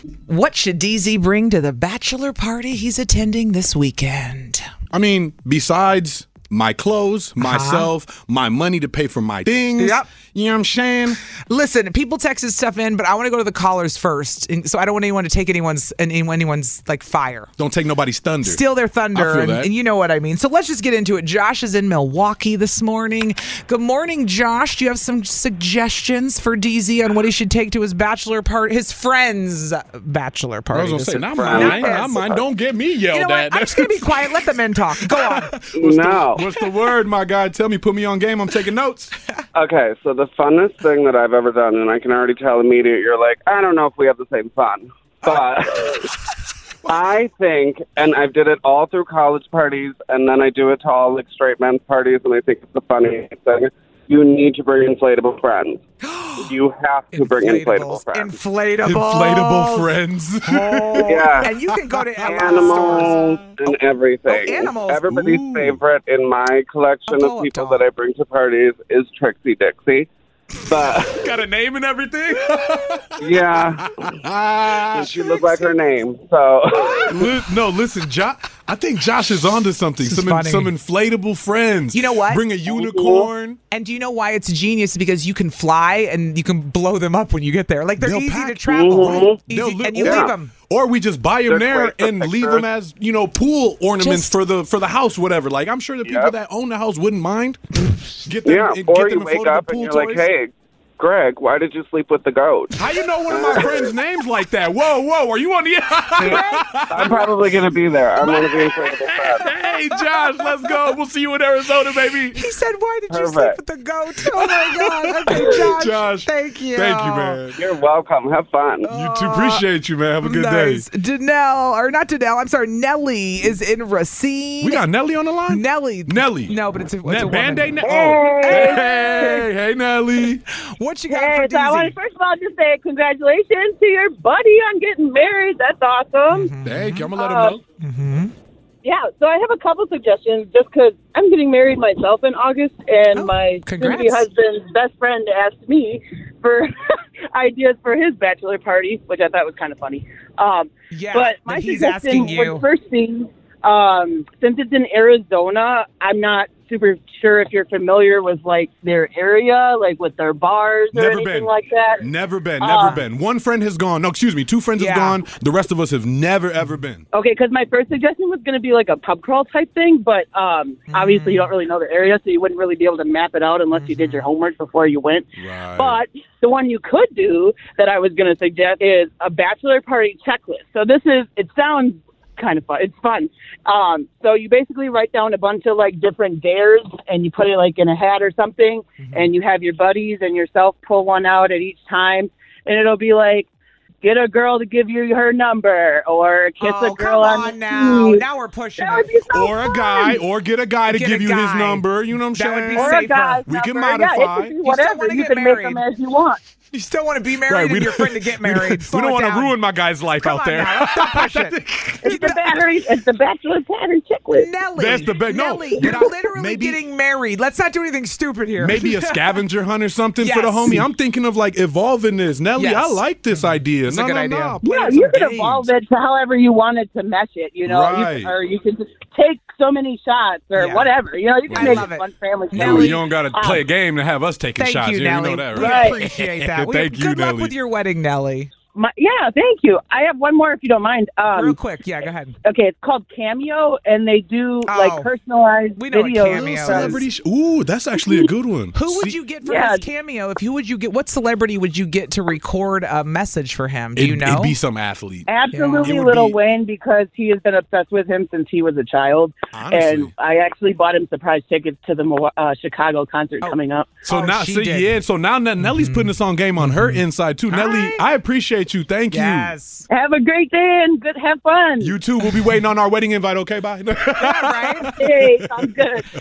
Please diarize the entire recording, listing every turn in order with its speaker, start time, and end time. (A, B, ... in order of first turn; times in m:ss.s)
0:00.3-0:04.7 A
0:04.9-0:11.2 B
0:07.4-0:07.9 A
0:09.8-0:10.1 A
0:11.5-0:17.5 A
0:17.6-0:19.7 B
0:18.4-0:32.4 A
0:30.7-0:34.4 B
0:31.3-0:32.4 C
0:33.1-0:35.7 A
0:35.0-0:39.1 B
0:35.8-0:36.4 C
0:39.6-0:46.1 C
0:46.8-0:55.8 C
0:56.0-0:56.5 A
0:56.4-0:58.4 C
0:57.1-0:59.9 A
0:58.8-1:03.8 B
1:00.4-1:03.4 A
1:01.1-1:01.5 C
1:02.2-1:10.1 C
1:04.3-1:05.1 A
1:05.0-1:05.8 B
1:07.1-1:07.8 A
1:10.7-1:11.3 C
1:10.9-1:15.7 B
1:13.2-1:13.9 C
1:14.9-1:17.2 C
1:16.8-1:17.2 A
1:17.1-1:23.6 B
1:20.0-1:20.7 A
1:21.9-1:22.4 A
1:22.7-1:23.3 C
1:23.7-1:30.5 A
1:28.0-1:37.6 B
1:28.7-1:29.4 C
1:30.0-1:30.3 C
1:31.5-1:32.6 C
1:34.0-1:34.4 A
1:36.1-1:36.3 C
1:38.2-1:40.3 B
1:38.4-1:43.9 C
1:42.8-1:47.6 B
1:46.2-1:47.3 A
1:46.9-1:49.5 C
1:48.2-1:52.4 B
1:50.1-1:50.6 A
1:52.3-1:57.4 A
1:53.1-1:53.6 C
1:54.3-1:57.6 B
1:57.6-1:58.9 C
1:58.8-1:59.7 A
1:58.9-2:00.9 B
2:00.2-2:04.8 A
2:04.6-2:10.4 B
2:05.5-2:09.4 A
2:07.8-2:09.4 D
2:10.5-2:12.0 A
2:11.1-2:16.5 D
2:16.3-2:17.1 A
2:16.6-2:17.6 B
2:17.2-2:17.6 D
2:17.8-2:18.3 A
2:18.8-2:26.7 D
2:23.1-2:24.3 A
2:27.3-2:42.0 D
2:30.9-2:32.6 A
2:40.9-2:47.0 B
2:42.6-2:43.0 D
2:42.7-2:43.1 A
2:44.8-2:45.2 A
2:47.1-3:13.5 D
2:50.9-2:51.5 A
2:53.7-2:54.3 A
2:55.4-2:56.0 B
3:09.0-3:09.3 A
3:14.0-3:18.2 D
3:16.6-3:19.1 A
3:18.8-3:20.2 D
3:19.3-3:24.6 B
3:20.9-3:23.4 A
3:22.8-3:26.4 D
3:24.6-3:25.8 A
3:26.7-3:29.6 A
3:27.4-3:32.0 B
3:30.2-3:32.6 A
3:32.0-3:34.5 D
3:34.3-3:39.4 A
3:34.8-3:36.8 B
3:38.6-3:45.7 B
3:40.2-3:40.9 A
3:42.6-3:45.0 A
3:44.6-3:53.6 D
3:47.6-3:48.3 B
3:50.6-3:50.9 A
3:51.5-3:51.9 B
3:51.5-3:53.0 A
3:52.6-3:57.5 B
3:54.6-3:58.5 A
3:55.6-3:56.0 D
3:58.8-4:01.6 D
4:01.3-4:02.4 A
4:02.4-4:07.0 D
4:04.7-4:05.1 A
4:05.8-4:07.0 A
4:06.3-4:09.2 B
4:08.7-4:14.6 A
4:09.4-4:09.8 D
4:14.0-4:15.3 B
4:15.3-4:24.0 D
4:15.5-4:16.0 A
4:15.8-4:16.4 B
4:19.5-4:20.1 B
4:24.0-4:29.5 B
4:24.1-4:24.9 A
4:25.6-4:27.0 A
4:27.5-4:28.0 A
4:29.1-4:29.9 A
4:29.9-4:32.0 D
4:31.8-4:35.7 B
4:34.2-4:35.0 A
4:35.0-4:36.0 D